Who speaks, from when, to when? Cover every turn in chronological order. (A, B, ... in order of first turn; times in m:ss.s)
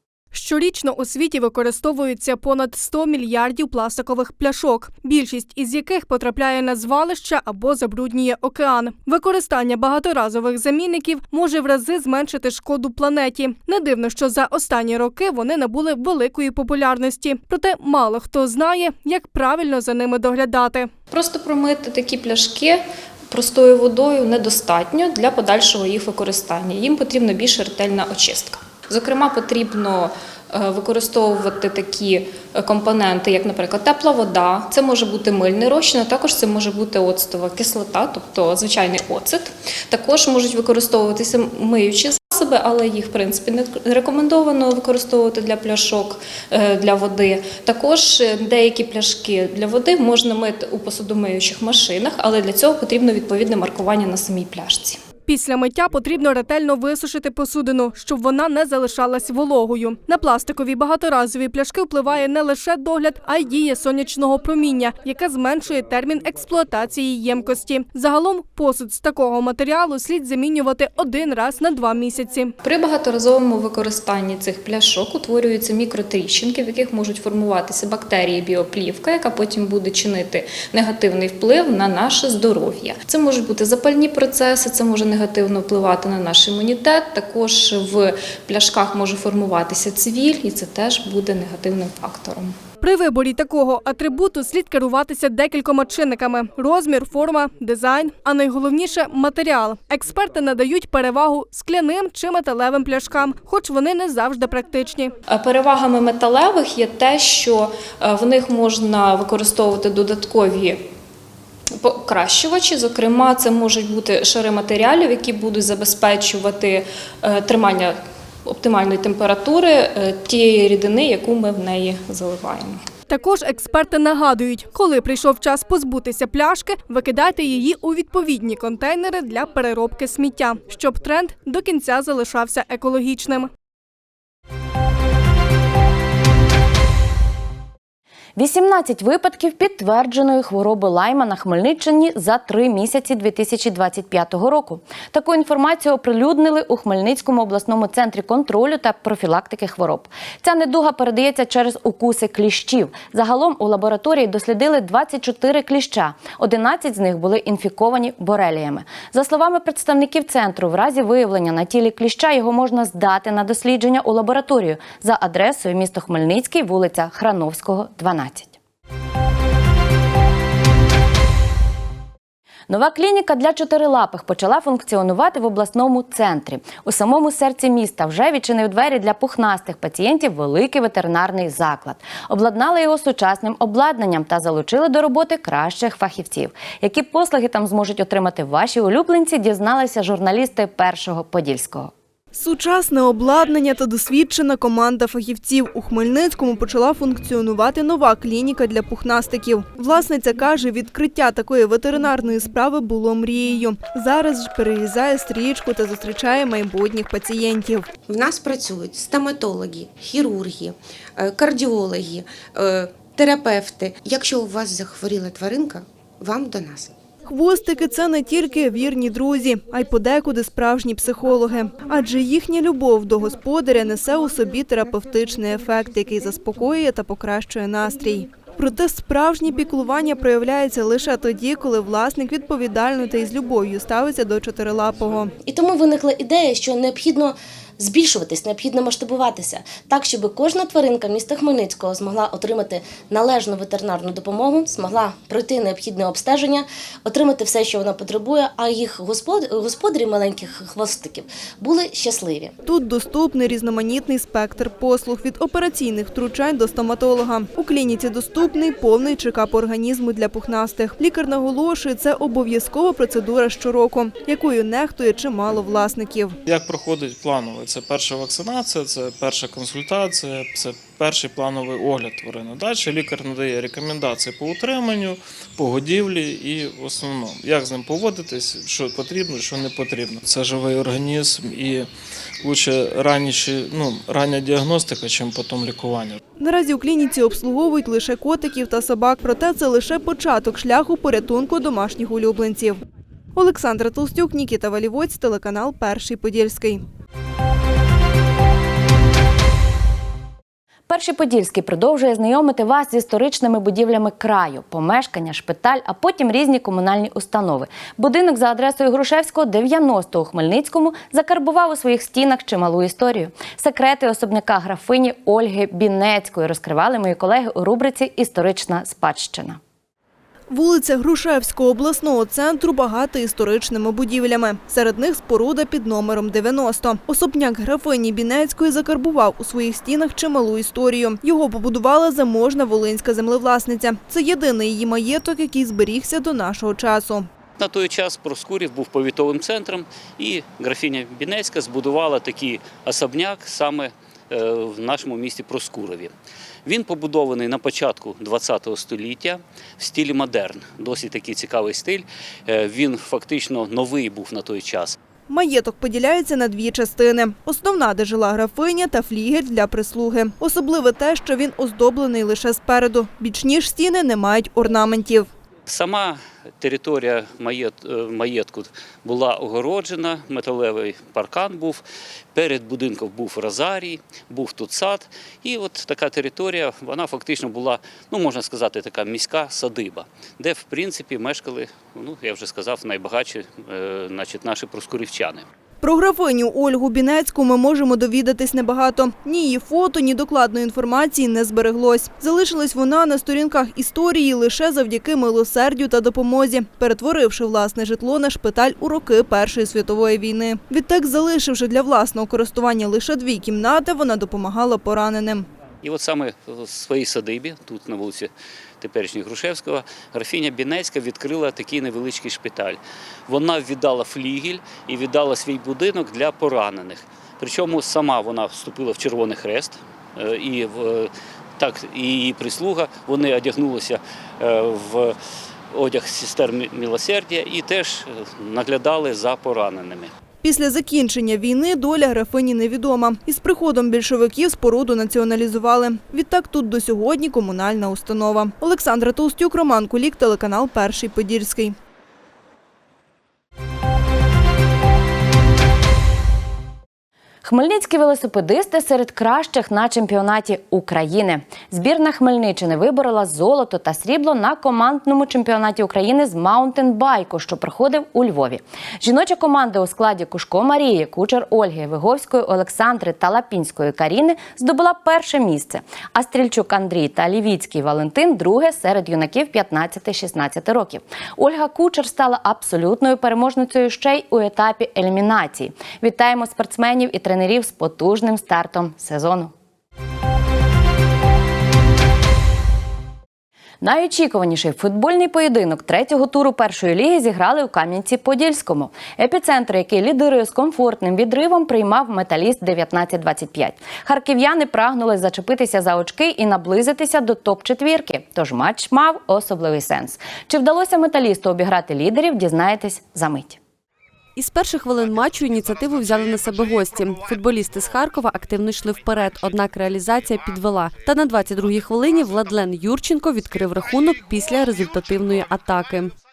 0:00.3-0:20.9 A
0:21.1-0:55.0 B
0:55.3-1:12.5 A
1:12.6-1:32.5 B
1:32.8-1:45.1 A
1:45.3-1:50.8 B
1:51.8-2:02.8 B
2:03.1-2:13.5 A
2:18.4-2:48.6 C
2:52.7-3:11.9 C
3:12.3-3:27.8 D
3:28.1-3:36.9 E
3:37.3-3:55.3 D
3:55.5-4:12.5 F
4:12.6-4:26.3 D
4:26.4-4:41.9 G
4:42.4-4:46.2 G
4:46.4-4:52.6 D
4:53.4-4:56.8 D
5:00.9-5:19.6 C
5:20.5-5:37.2 D
5:37.6-5:46.1 H
5:46.6-5:55.0 H
5:55.3-6:05.3 D
6:05.7-6:11.8 H
6:12.3-6:25.4 H
6:25.8-6:45.5 D
6:45.8-7:05.1 H
7:05.7-7:10.1 H
7:10.4-7:21.8 D
7:27.4-7:59.5 C
8:03.8-8:23.6 C
8:24.4-8:36.1 I